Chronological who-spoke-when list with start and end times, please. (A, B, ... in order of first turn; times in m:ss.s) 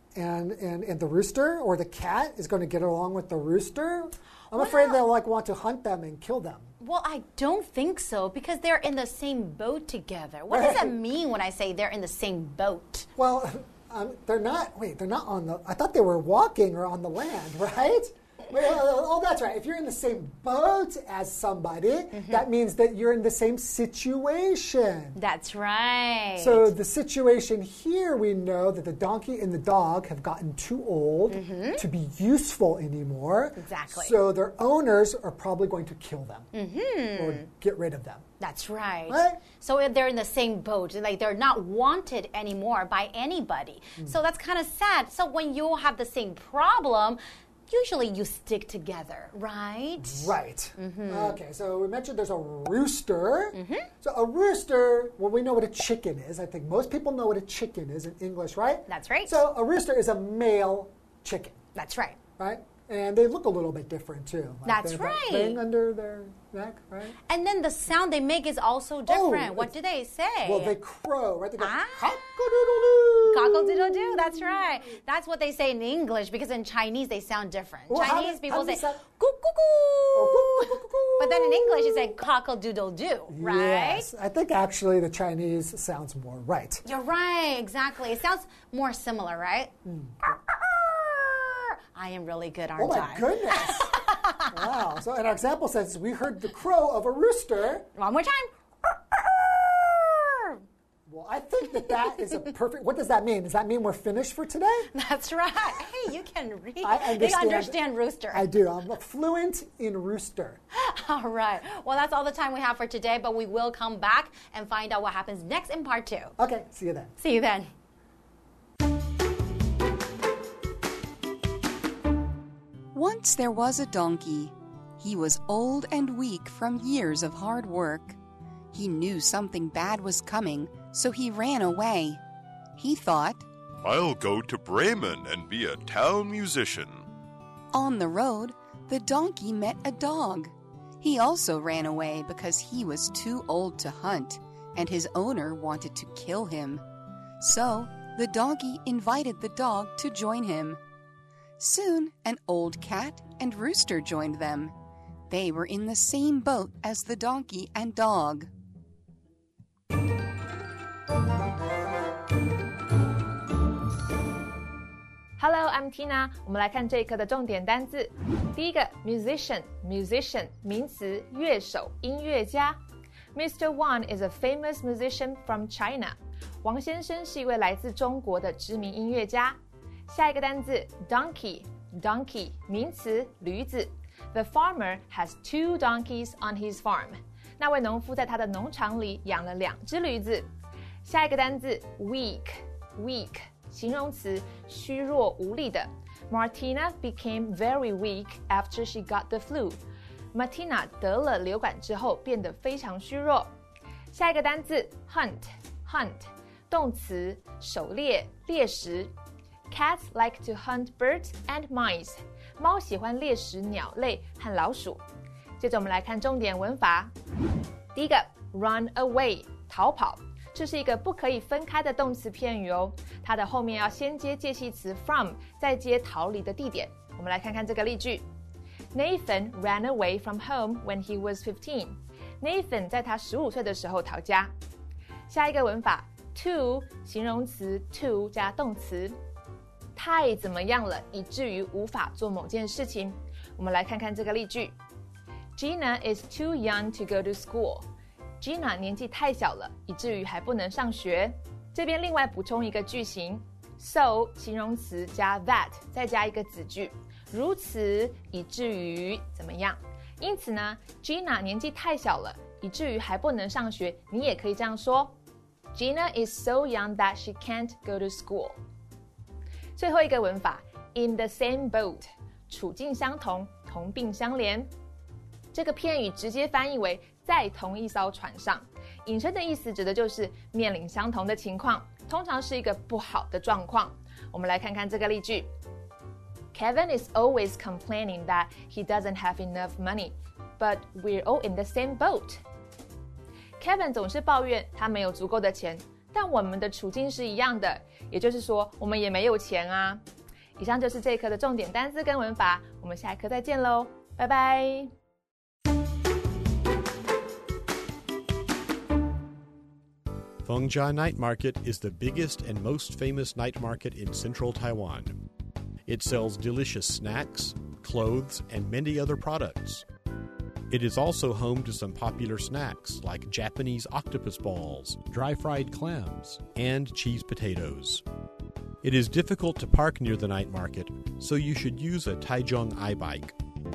0:00.2-0:06.7 A
0:04.5-0:05.0 B
0:06.8-0:13.1 B
0:10.5-0:11.0 A
0:13.2-0:25.2 A
0:22.1-0:22.4 B
0:25.2-0:26.7 B
0:26.4-0:36.5 A
0:31.3-0:31.8 B
0:33.6-0:34.2 B
0:36.5-0:37.4 B
0:37.2-0:38.2 A
0:38.4-0:51.4 B
0:39.1-0:39.4 A
0:50.0-1:01.6 A
0:53.5-0:53.9 B
0:58.9-0:59.4 B
1:01.8-1:02.2 B
1:02.4-1:07.2 A
1:04.6-1:05.6 B
1:07.3-1:10.8 B
1:09.1-1:09.7 A
1:10.4-1:14.5 A
1:11.6-1:12.3 B
1:13.3-1:24.1 B
1:17.9-1:19.0 A
1:20.2-1:22.1 A
1:23.3-1:26.8 A
1:26.8-1:29.7 B
1:29.8-1:30.2 A
1:30.3-1:34.6 B
1:32.8-1:37.9 A
1:38.0-1:40.6 B
1:41.1-1:44.9 A
1:44.9-1:48.5 B
1:46.8-1:50.6 A
1:50.7-1:56.3 B
1:56.4-1:57.1 A
1:57.2-1:57.7 B
2:02.9-2:08.2 C
2:08.7-2:12.2 C
2:12.8-2:13.5 C
2:13.8-2:17.1 D
2:17.7-2:26.8 C
2:27.4-2:30.8 C
2:31.6-2:34.7 C
2:35.3-2:38.5 C
2:45.4-2:52.8 E
2:53.4-2:59.6 E
3:00.1-3:10.5 E
3:11.0-3:19.8 E
3:20.3-3:23.5 E
3:24.1-3:29.1 E
3:29.7-3:35.0 E
3:35.6-3:37.1 E
3:38.0-3:48.2 E
3:48.9-3:54.5 E
3:55.3-3:59.2 E
4:00.0-4:04.7 E
4:05.6-4:07.8 E
4:08.4-4:25.2 E
4:25.8-4:28.6 E
4:29.8-4:34.7 E
4:35.5-4:45.5 E
4:46.5-4:52.4 E
4:53.6-5:00.0 E
5:00.6-5:04.9 E
5:10.4-5:15.2 F
5:15.9-5:19.8 F
5:20.7-5:28.0 F
5:28.8-5:33.4 F